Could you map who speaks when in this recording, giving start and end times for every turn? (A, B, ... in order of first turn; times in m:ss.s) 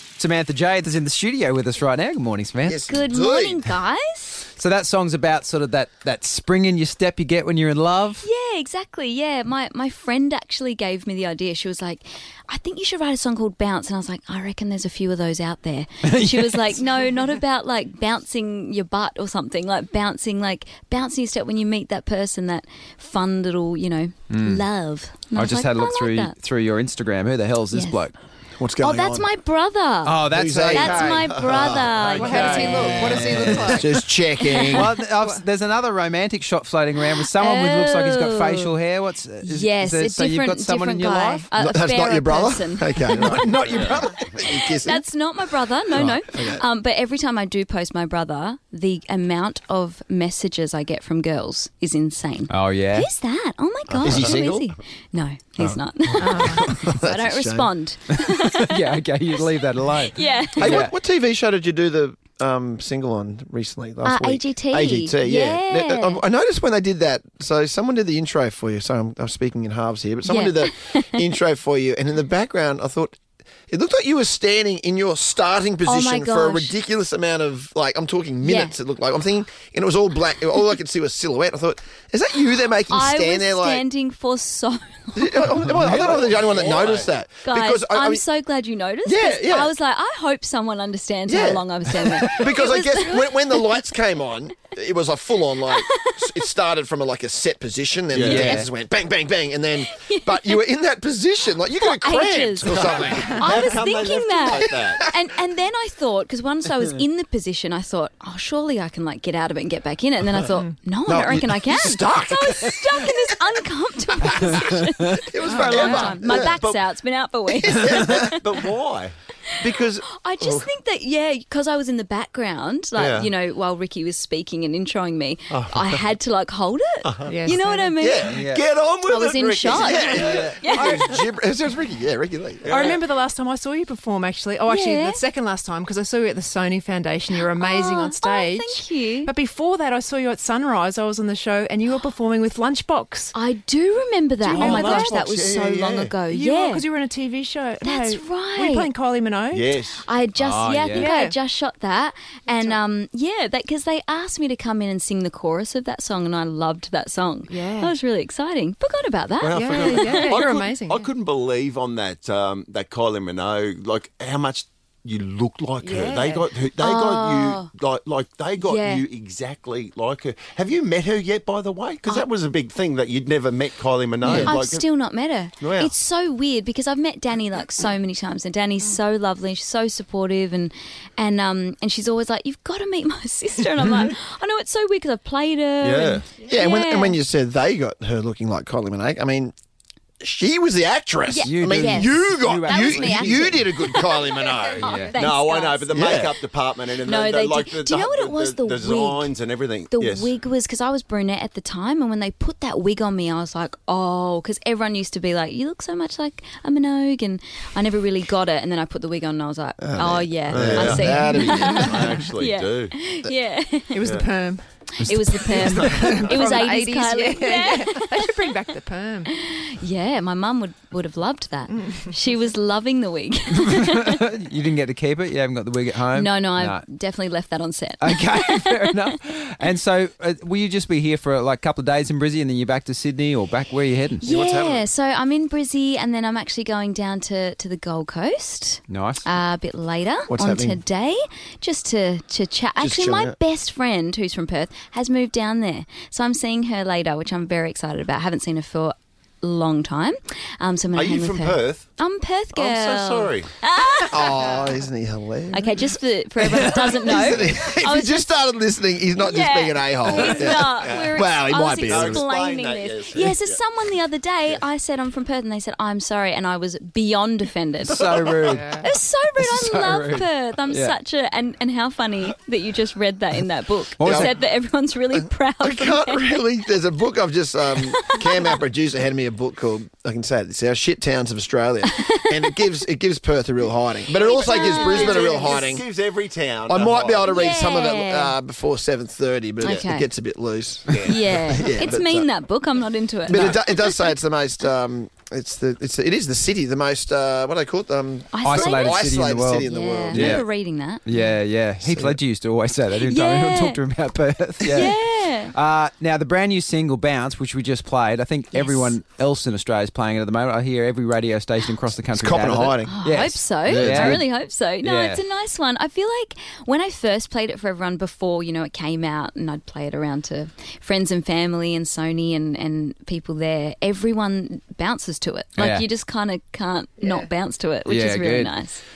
0:00.2-0:02.8 A
0:02.7-0:03.7 B
0:02.9-0:04.4 C
0:04.5-0:08.2 A
0:08.2-0:26.4 C
0:16.0-0:16.8 A
0:24.3-0:24.6 A
0:25.3-0:28.2 A
0:27.7-0:28.0 C
0:28.6-0:29.3 B
0:28.8-0:33.0 C
0:30.0-0:31.3 A
0:30.3-0:34.9 B
0:32.0-0:34.0 A
0:32.2-0:33.8 D
0:34.4-0:34.7 C
0:34.6-0:41.5 A
0:37.3-0:38.7 C
0:39.4-0:43.7 C
0:41.6-0:45.1 B
0:43.7-0:44.0 E
0:44.3-0:58.8 C
0:45.9-0:46.6 B
0:52.5-0:53.1 A
0:53.9-0:54.5 E
0:54.0-0:54.6 B
0:55.6-0:57.7 B
0:58.6-1:00.9 A
0:59.4-1:00.8 C
1:00.6-1:13.2 B
1:04.0-1:06.2 C
1:10.2-1:11.3 C
1:13.7-1:23.9 B
1:15.8-1:16.8 C
1:18.4-1:18.8 C
1:22.9-1:25.6 C
1:25.2-1:28.2 B
1:25.8-1:27.1 E
1:27.3-1:33.8 C
1:29.0-1:29.7 B
1:31.3-1:43.6 B
1:35.6-1:36.5 C
1:38.1-1:38.5 E
1:38.2-1:38.7 A
1:39.8-1:40.6 C
1:41.7-1:58.5 C
1:42.7-1:45.1 E
1:44.6-1:45.1 B
1:51.1-1:53.1 B
1:54.6-1:56.6 B
1:56.2-1:56.8 E
1:57.6-1:58.4 B
1:58.3-1:59.1 E
1:59.5-2:08.4 C
1:59.6-2:00.7 B
2:03.0-2:03.3 E
2:05.5-2:06.0 E
2:07.0-2:07.4 E
2:07.3-2:08.0 D
2:08.0-2:08.4 B
2:08.0-2:11.1 E
2:08.3-2:08.6 A
2:09.0-2:11.0 C
2:09.7-2:13.0 B
2:12.6-2:13.1 E
2:12.7-2:23.3 D
2:14.7-2:15.2 C
2:17.4-2:19.3 C
2:23.3-2:26.9 C
2:24.4-2:26.2 E
2:24.5-2:25.2 D
2:26.2-2:29.7 D
2:27.8-2:28.9 C
2:29.5-2:30.0 E
2:30.0-2:40.4 C
2:30.4-2:31.1 A
2:31.0-2:31.4 D
2:32.5-2:32.8 D
2:37.5-2:37.9 D
2:39.4-2:54.9 E
2:39.5-2:41.0 D
2:45.8-2:46.5 D
2:46.8-2:47.7 C
2:48.6-2:49.1 C
2:54.2-2:54.5 B
2:54.3-3:07.2 C
2:55.6-2:55.9 E
3:05.8-3:06.3 E
3:06.4-3:09.5 B
3:10.2-3:14.8 B
3:11.3-3:16.0 C
3:11.4-3:13.7 A
3:14.0-3:20.3 E
3:14.8-3:15.2 A
3:15.9-3:16.3 B
3:16.9-3:19.4 C
3:19.9-3:34.1 C
3:29.8-3:32.2 B
3:30.5-3:32.9 E
3:33.9-3:34.6 D
3:35.0-3:38.5 C
3:35.0-3:36.0 A
3:35.5-3:36.4 E
3:35.9-3:39.3 D
3:39.3-3:44.2 C
3:43.6-3:46.8 A
3:46.1-3:49.0 C
3:48.0-3:54.2 A
3:54.2-4:14.5 C
3:54.2-3:54.9 B
3:58.9-3:59.3 A
4:00.3-4:00.8 B
4:02.8-4:03.4 B
4:10.9-4:11.8 E
4:12.5-4:13.5 E
4:14.1-4:15.9 B
4:15.5-4:18.3 C
4:16.5-4:22.3 B
4:19.2-4:36.5 C
4:20.8-4:21.2 E
4:21.8-4:23.6 E
4:27.8-4:28.8 A
4:29.4-4:31.0 A
4:34.0-4:34.3 A
4:34.0-4:34.4 B
4:35.1-4:45.8 B
4:37.9-4:38.6 C
4:41.8-4:42.6 C
4:44.1-4:45.7 C
4:44.4-4:47.4 E
4:46.7-4:52.3 B
4:47.3-4:48.4 C
4:49.6-4:50.1 C
4:50.9-4:51.2 E
4:51.0-4:54.1 C
4:53.3-5:00.4 B
4:53.3-4:53.6 A
4:58.3-4:59.1 C
4:58.4-5:00.5 A
4:59.6-5:01.4 C
5:01.0-5:14.3 A
5:01.8-5:02.2 B
5:03.0-5:03.8 C
5:04.6-5:04.9 B
5:04.7-5:05.5 C
5:08.5-5:08.9 C
5:12.1-5:13.0 B
5:12.8-5:28.8 C
5:13.7-5:14.2 B
5:14.8-5:15.2 A
5:25.6-5:25.9 A
5:27.9-5:28.5 A